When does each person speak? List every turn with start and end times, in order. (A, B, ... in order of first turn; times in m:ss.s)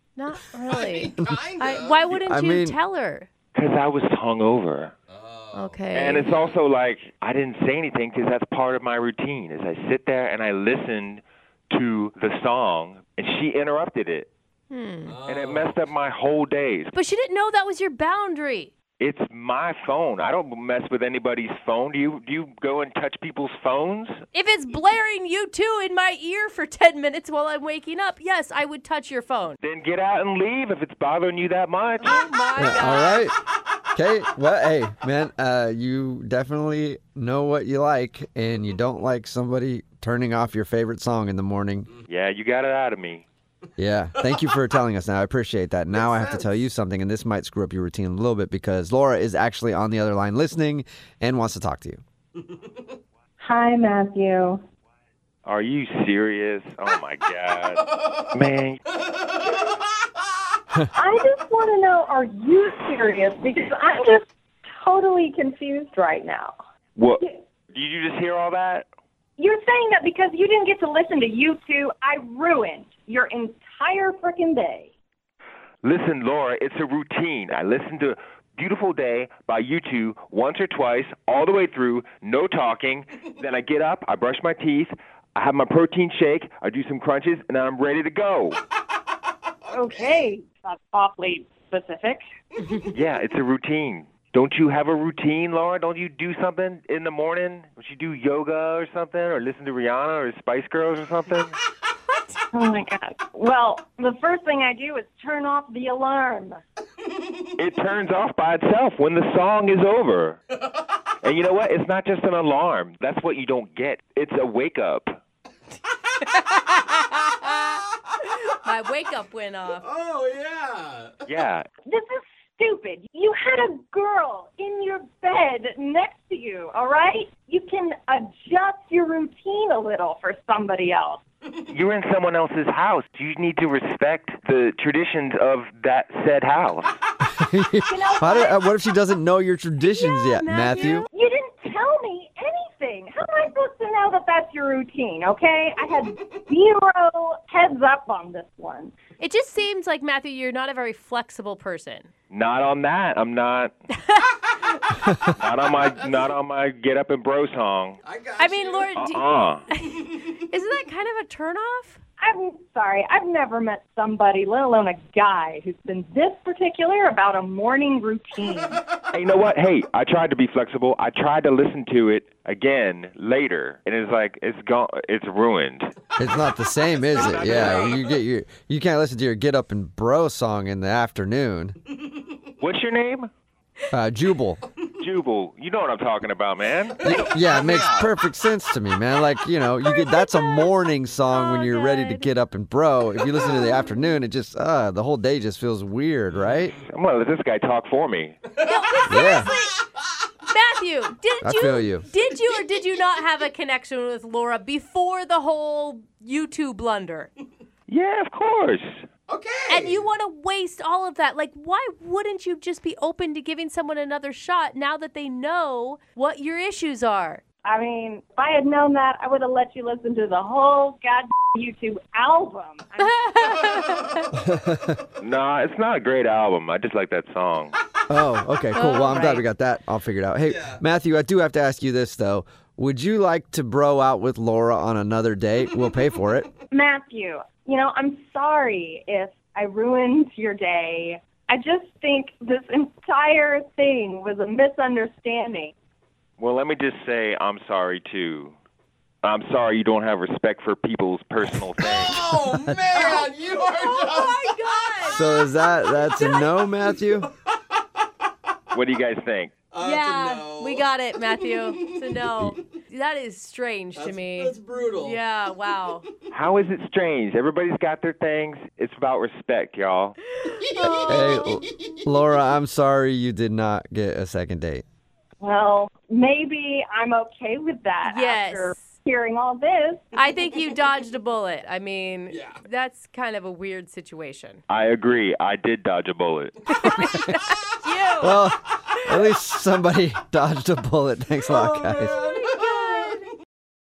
0:00.2-0:03.3 A
0:00.7-0:02.2 B
0:02.2-0:02.8 C
0:03.5-0:04.9 D
0:05.1-0:06.6 B
0:05.5-0:06.3 A
0:05.9-0:14.3 D
0:14.7-0:15.2 A
0:15.1-0:15.8 B
0:15.2-0:16.9 D
0:16.9-0:18.7 A
0:19.0-0:24.2 D
0:24.3-0:29.6 A
0:29.6-0:32.2 D
0:32.0-0:33.3 A
0:32.6-0:33.4 C
0:33.9-0:41.9 C
0:42.1-0:43.2 D
0:43.8-0:52.0 C
0:45.9-0:46.5 B
0:53.4-0:54.6 E
0:55.4-0:58.8 D
0:59.1-0:59.7 B
1:00.9-1:06.5 E
1:07.0-1:07.2 D
1:07.7-1:08.9 D
1:09.4-1:14.9 E
1:15.8-1:28.6 D
1:29.7-1:32.2 E
1:32.9-1:41.5 D
1:42.5-1:46.6 E
1:47.6-1:50.4 D
1:51.2-1:55.2 D
1:56.5-1:57.7 A
1:58.5-1:59.8 A
1:59.8-2:01.3 B
2:01.2-2:01.6 D
2:01.8-2:11.2 E
2:11.7-2:17.0 D
2:17.3-2:21.0 C
2:17.9-2:18.6 E
2:19.8-2:21.0 A
2:20.8-2:28.9 E
2:29.2-2:32.1 A
2:32.3-2:33.7 D
2:35.4-2:38.0 D
2:35.8-2:36.3 B
2:38.0-2:39.0 B
2:38.4-2:42.0 A
2:39.0-2:39.6 D
2:42.2-2:48.8 E
2:49.1-2:55.9 D
2:56.2-3:01.8 C
2:57.0-2:58.1 D
2:57.3-2:58.0 B
3:02.6-3:03.3 D
3:03.9-3:04.6 C
3:05.0-3:08.1 D
3:07.0-3:07.6 B
3:07.0-3:16.8 C
3:09.8-3:10.7 A
3:11.3-3:12.3 A
3:16.5-3:16.7 B
3:16.9-3:18.4 D
3:18.6-3:19.4 B
3:18.6-3:19.8 A
3:19.1-3:19.5 C
3:20.5-3:27.3 A
3:21.4-3:22.1 C
3:27.9-3:29.0 D
3:29.3-3:30.0 B
3:29.7-3:37.4 A
3:37.6-3:43.6 E
3:43.2-3:44.2 A
3:44.4-3:45.0 C
3:45.2-3:47.8 D
3:48.1-3:56.5 C
3:48.7-3:49.4 A
3:50.5-3:50.8 B
3:56.7-4:05.7 E
4:06.4-4:08.5 D
4:09.2-4:12.2 D
4:11.9-4:15.2 B
4:12.3-4:13.0 C
4:12.9-4:15.3 A
4:15.0-4:17.3 C
4:18.7-4:19.5 D
4:19.7-4:22.3 B
4:19.8-4:26.0 A
4:23.9-4:25.2 B
4:26.3-4:30.2 D
4:30.6-4:31.4 B
4:30.6-4:31.6 A
4:31.0-4:34.8 C
4:35.4-4:40.1 E
4:38.0-4:38.8 A
4:40.1-4:44.6 A
4:42.3-4:42.6 B
4:44.7-4:46.6 D
4:46.7-4:48.5 A
4:46.9-4:47.4 C
4:48.2-4:52.2 C
4:51.5-4:53.1 B
4:52.0-4:53.2 A